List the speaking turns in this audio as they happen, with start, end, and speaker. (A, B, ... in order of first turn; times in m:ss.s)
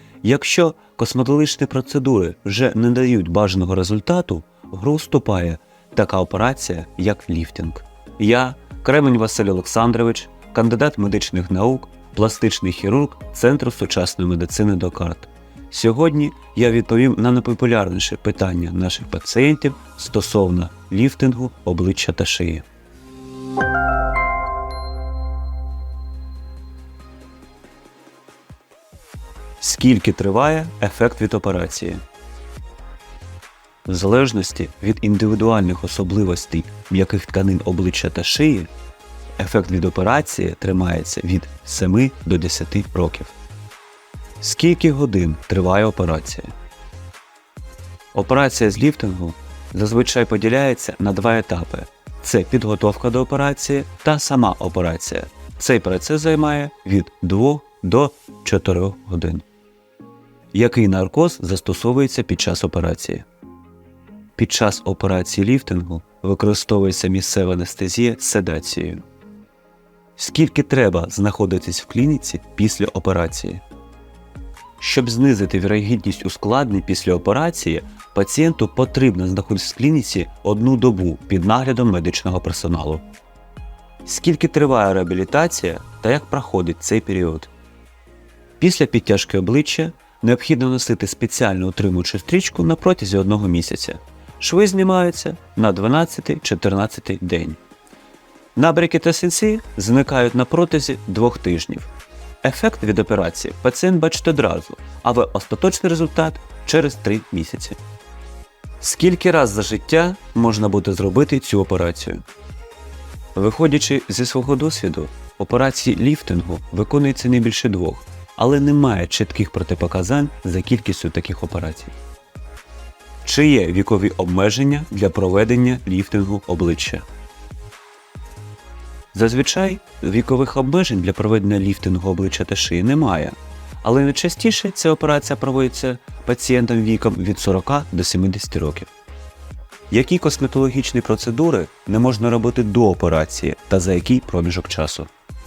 0:00.2-0:22.6 A
0:29.6-0:32.0 A
0:33.9-0:38.7 A
0:39.4-0:43.4 A
0:44.4-0:46.5 A
0:48.1-0:59.4 A
1:00.5-1:03.3 A
1:04.4-1:09.0 A
1:10.2-1:13.6 A
1:14.8-1:23.0 A
1:24.0-1:27.5 A
1:28.6-1:37.6 A
1:38.6-1:41.9 A
1:42.4-1:47.8 A
1:48.8-1:52.2 A
1:53.4-2:02.0 A
2:03.2-2:07.1 A
2:09.1-2:18.9 A
2:19.9-2:25.1 A